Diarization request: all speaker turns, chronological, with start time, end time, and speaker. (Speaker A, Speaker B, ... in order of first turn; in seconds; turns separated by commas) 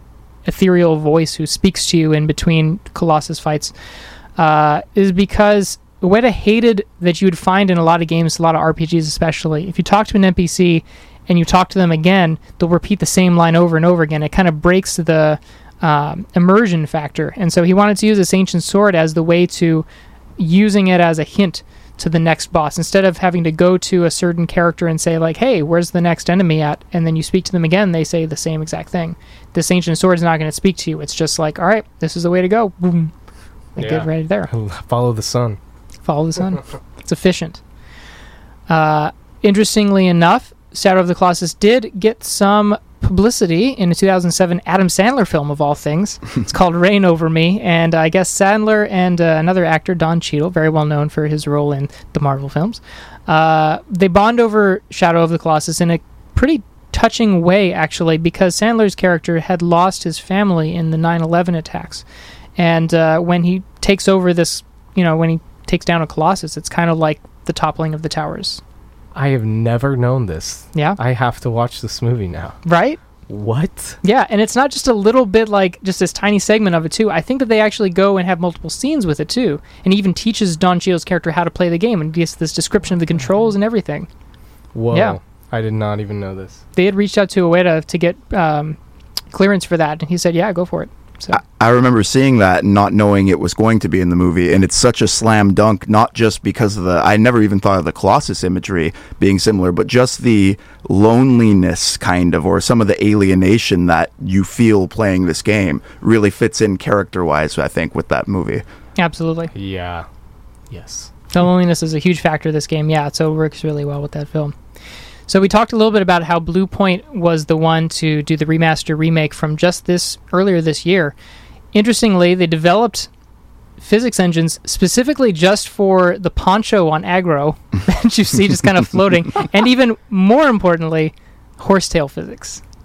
Speaker A: 0.4-3.7, Speaker A: 4.4-19.9, Speaker A: 20.4-33.1, Speaker A: 33.8-34.5, Speaker B: 33.8-35.6, Speaker A: 36.0-37.6, Speaker A: 38.7-62.0, Speaker A: 62.6-68.6, Speaker B: 69.1-72.6, Speaker A: 72.7-73.0, Speaker B: 73.3-74.0, Speaker A: 74.0-84.1, Speaker B: 84.7-86.6, Speaker A: 84.9-85.2, Speaker A: 86.8-88.8, Speaker A: 89.3-91.4, Speaker C: 91.3-108.6, Speaker A: 109.0-109.5, Speaker B: 109.5-110.0, Speaker B: 110.7-111.1, Speaker A: 111.3-114.5, Speaker A: 115.3-121.1, Speaker A: 121.7-123.1, Speaker A: 123.8-132.6